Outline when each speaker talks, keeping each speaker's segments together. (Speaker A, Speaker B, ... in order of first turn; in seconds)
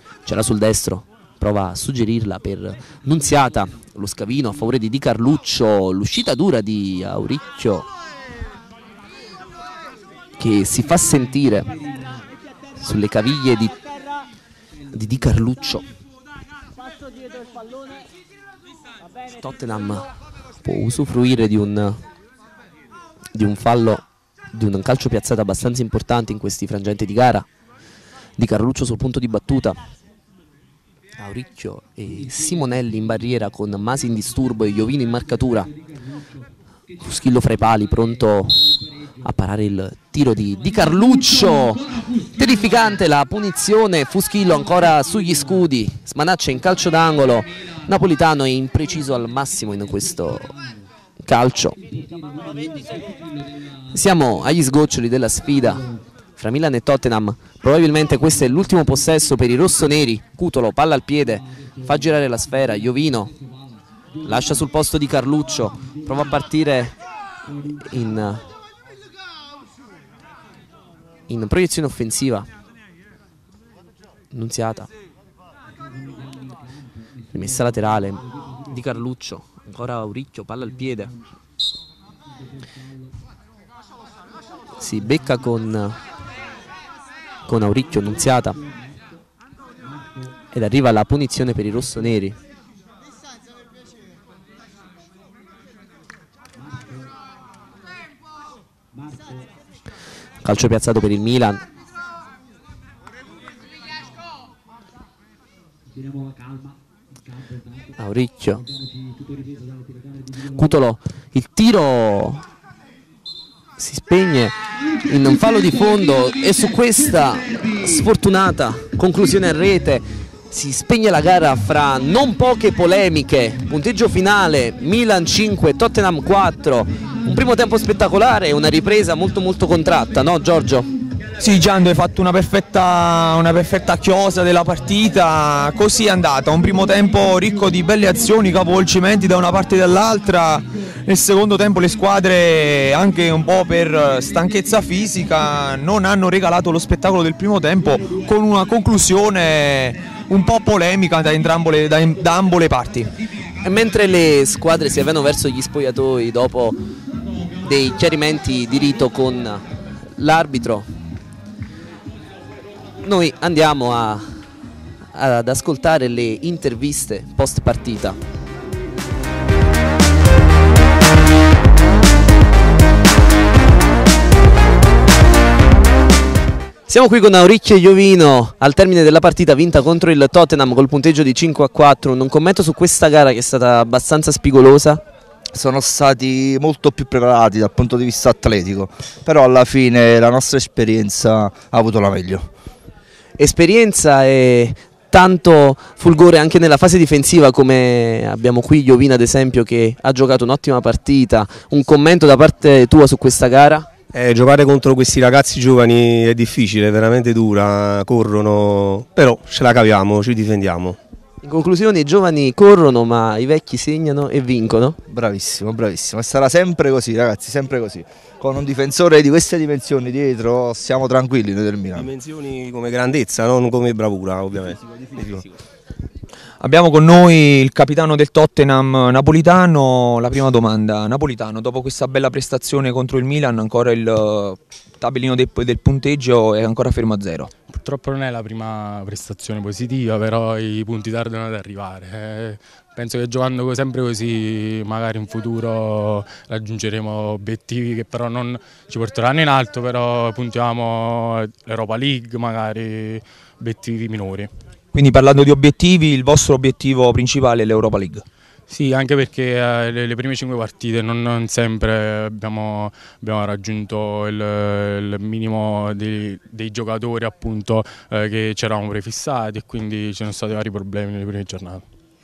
Speaker A: 0.2-7.9, 10.4-11.7, 12.8-13.8, 14.9-15.8, 19.3-22.0, 23.3-27.5, 28.4-29.8, 31.2-35.7, 37.0-50.5, 51.2-51.8, 53.9-63.4, 64.2-67.0, 67.8-68.5, 71.3-72.5, 74.3-74.9, 77.3-81.2, 84.8-86.0, 87.5-88.6, 90.5-92.4, 100.4-101.7, 108.0-108.6, 110.5-112.5, 113.8-130.9, 153.6-156.8, 157.6-159.6, 160.2-160.9, 163.0-164.3, 165.1-168.2, 176.9-185.0, 193.4-203.9, 211.4-215.0
Speaker B: 131.4-153.1, 226.6-237.5, 254.9-258.2
Speaker C: 185.5-192.5, 215.1-222.1
Speaker D: 204.1-211.0, 221.9-225.4
Speaker E: 237.7-254.5, 258.7-271.8